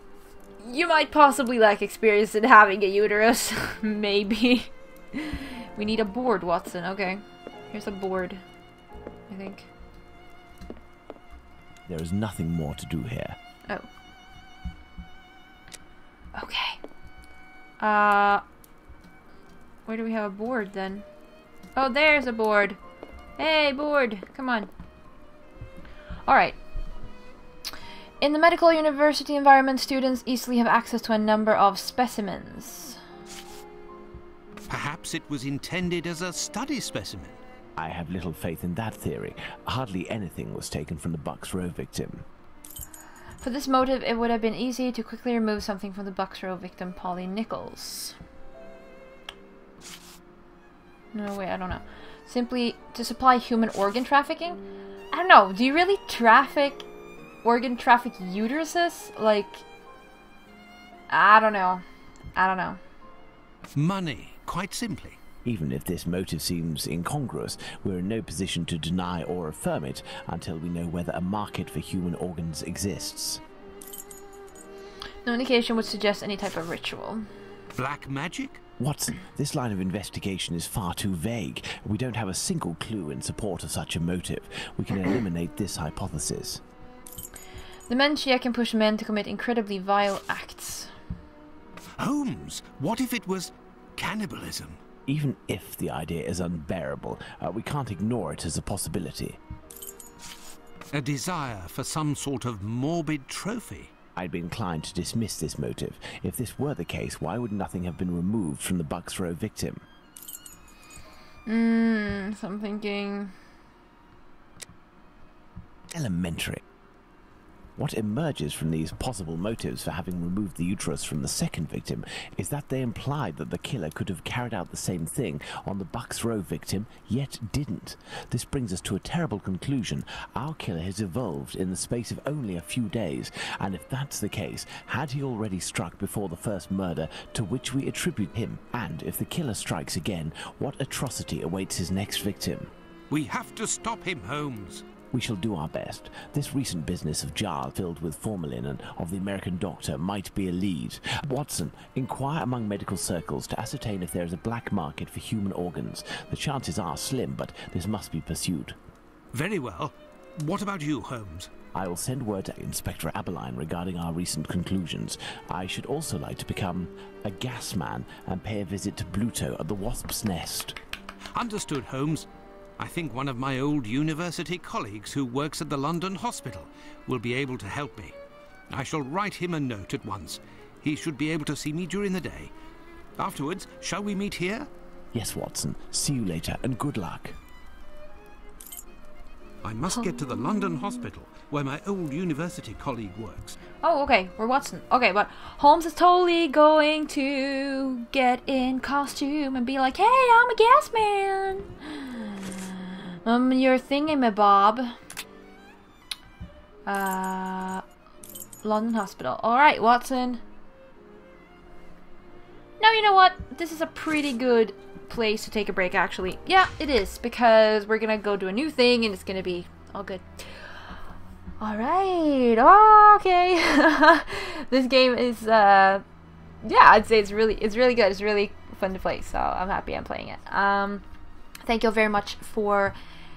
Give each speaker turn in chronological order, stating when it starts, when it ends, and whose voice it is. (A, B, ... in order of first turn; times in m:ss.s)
0:00.6-0:08.4 A
0:09.3-0:09.7 A
0:11.8-0:13.4 B
0:16.3-0:16.8 A
0:17.8-0:18.4 A
0:19.8-0:21.0 A
0:21.8-0:22.8 A
0:23.4-0:24.7 A
0:26.2-0:26.6 A
0:28.2-0:33.0 A
0:34.7-0:37.4 C
0:37.8-0:42.2 B
0:43.4-0:48.2 A
0:51.1-0:56.8 A
0:57.4-0:59.6 A
1:01.1-1:01.8 A
1:02.3-1:02.8 A
1:03.7-1:05.2 C
1:05.4-1:13.4 B
1:15.2-1:17.3 A
1:17.7-1:18.6 C
1:18.8-1:26.6 B
1:27.9-1:30.9 A
1:32.0-1:34.8 C
1:35.1-1:39.4 B
1:40.9-1:43.9 C
1:44.2-1:49.8 B
1:51.4-1:53.3 A
1:55.9-1:56.6 B
1:57.8-2:22.7 B
2:23.1-2:24.8 C
2:25.1-2:38.8 B
2:39.3-2:41.5 C
2:41.7-2:50.8 B
2:51.3-2:52.3 C
2:52.8-2:58.2 C
2:58.7-3:02.5 C
3:03.2-3:04.7 C
3:05.1-3:07.4 B
3:09.6-3:13.6 C
3:10.1-3:11.0 A
3:13.8-3:25.0 A
3:26.8-3:27.8 A
3:28.6-3:30.4 A
3:32.8-3:41.0 A
3:41.6-3:46.0 A
3:46.6-3:51.0 A
3:51.6-3:52.9 A